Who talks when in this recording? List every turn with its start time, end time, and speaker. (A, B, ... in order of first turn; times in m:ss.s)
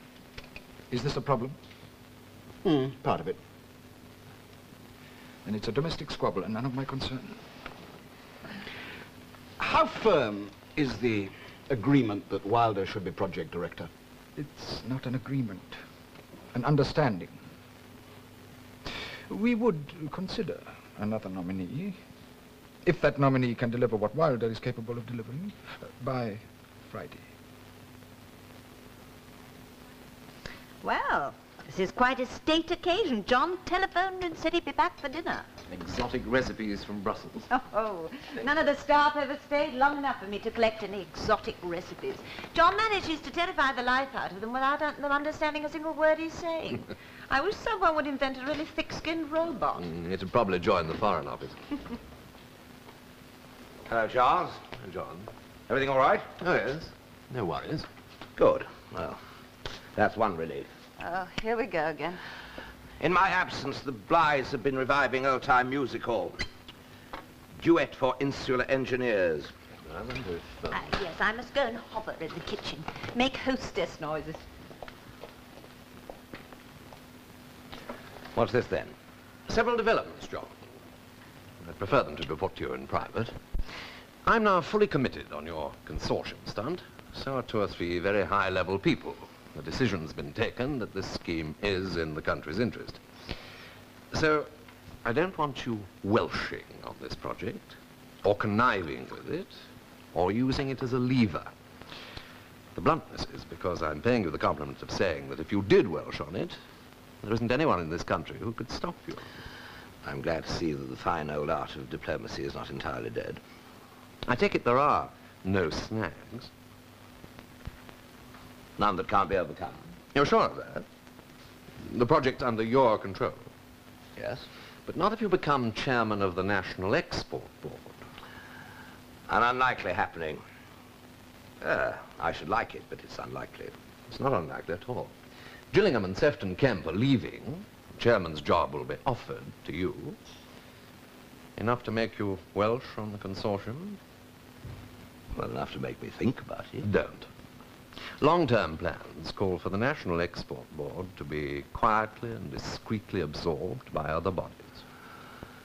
0:00.9-0:01.6 A
0:02.6-0:03.4 B
0:05.4-0:07.4 A
0:09.6-0:13.9 B
0:14.4-0:15.8 A
0:16.5-0:17.4 A
0:19.3-0:22.0 A
0:22.8-0:27.3 A
0:30.8-0:35.5 C
0:35.7-0:37.5 D
0:37.5-0:49.8 C
0:49.8-0:51.6 D
0:53.9-0:54.6 E
0:54.8-0:55.3 D
0:55.7-0:56.3 E
0:56.4-0:57.9 D
0:58.4-0:59.2 E
1:00.0-1:00.7 E
1:01.0-1:02.2 C
1:03.0-1:06.4 E
1:07.6-1:09.5 E
1:09.8-1:10.8 D
1:10.7-1:14.4 C
1:18.4-1:18.9 E
1:19.5-1:20.6 D
1:21.6-1:23.4 D
1:24.2-1:33.0 D
1:34.1-1:34.5 D
1:35.0-1:39.5 D
1:40.1-1:41.5 D
1:42.8-1:46.6 D
1:47.2-1:49.3 D
1:50.0-1:53.4 E
1:54.3-1:56.5 D
1:58.8-1:59.9 E
2:00.1-2:00.9 D
2:01.8-2:03.5 D
2:04.2-2:04.5 E
2:04.9-2:08.0 D
2:09.3-2:10.4 E
2:11.6-2:13.7 E
2:14.1-2:15.1 D
2:15.7-2:20.2 D
2:21.6-2:24.0 D
2:25.3-2:26.9 E
2:26.8-2:27.3 D
2:28.2-2:34.8 D